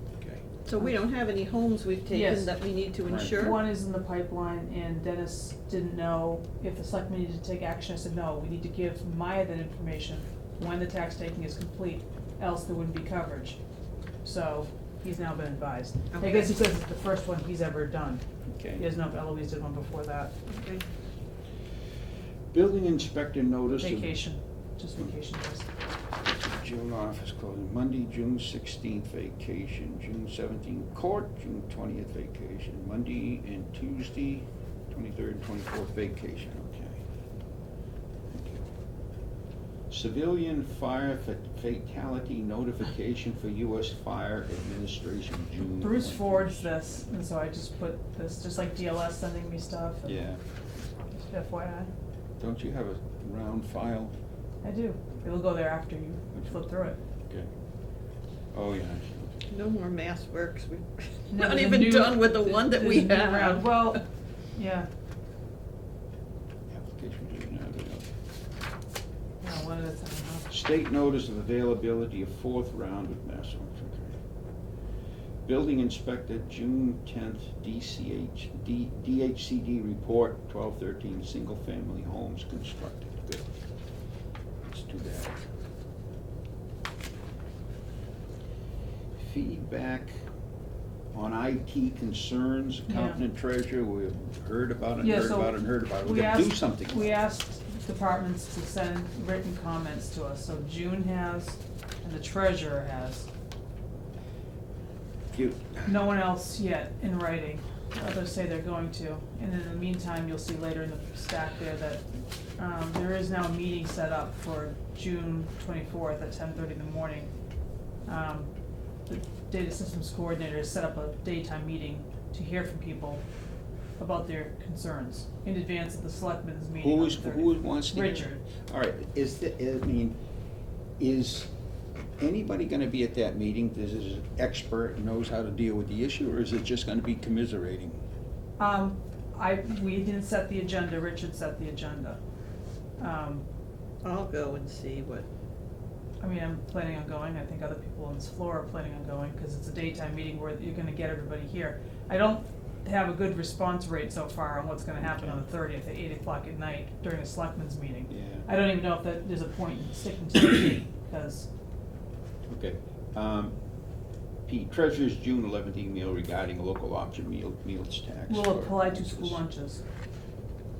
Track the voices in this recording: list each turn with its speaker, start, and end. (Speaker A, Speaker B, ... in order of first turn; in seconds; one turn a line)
Speaker A: 0.6-3.6
Speaker B: 2.1-2.5
Speaker C: 3.0-3.5
Speaker B: 3.3-13.6
Speaker B: 14.2-18.2
Speaker A: 16.1-16.5
Speaker C: 18.5-18.9
Speaker B: 18.8-20.3
Speaker A: 20.5-20.8
Speaker C: 22.5-24.1
Speaker B: 23.8-25.7
Speaker C: 26.2-37.0
Speaker C: 38.3-38.7
Speaker C: 39.9-47.0
Speaker B: 45.8-50.1
Speaker C: 50.0-50.4
Speaker B: 51.1-51.9
Speaker C: 52.4-54.1
Speaker B: 54.6-57.0
Speaker C: 58.5-59.4
Speaker A: 59.5-64.0
Speaker B: 61.3-64.0
Speaker B: 64.5-64.9
Speaker C: 66.7-68.1
Speaker B: 69.4-70.5
Speaker C: 70.5-74.2
Speaker C: 75.5-83.4
Speaker C: 84.7-85.4
Speaker C: 89.2-90.1
Speaker C: 91.1-97.2
Speaker B: 92.9-93.2
Speaker B: 95.0-103.3
Speaker C: 105.3-105.9
Speaker B: 105.8-112.0
Speaker B: 112.6-117.3
Speaker B: 118.0-118.5
Speaker B: 119.1-123.2
Speaker B: 124.0-128.4
Speaker C: 126.8-130.2
Speaker C: 131.0-131.5
Speaker C: 132.2-138.0
Speaker B: 138.6-142.2
Speaker B: 143.0-143.4
Speaker A: 144.0-145.3
Speaker B: 146.2-161.5
Speaker C: 158.1-158.5
Speaker C: 162.5-163.6
Speaker C: 164.4-169.4
Speaker B: 168.3-169.8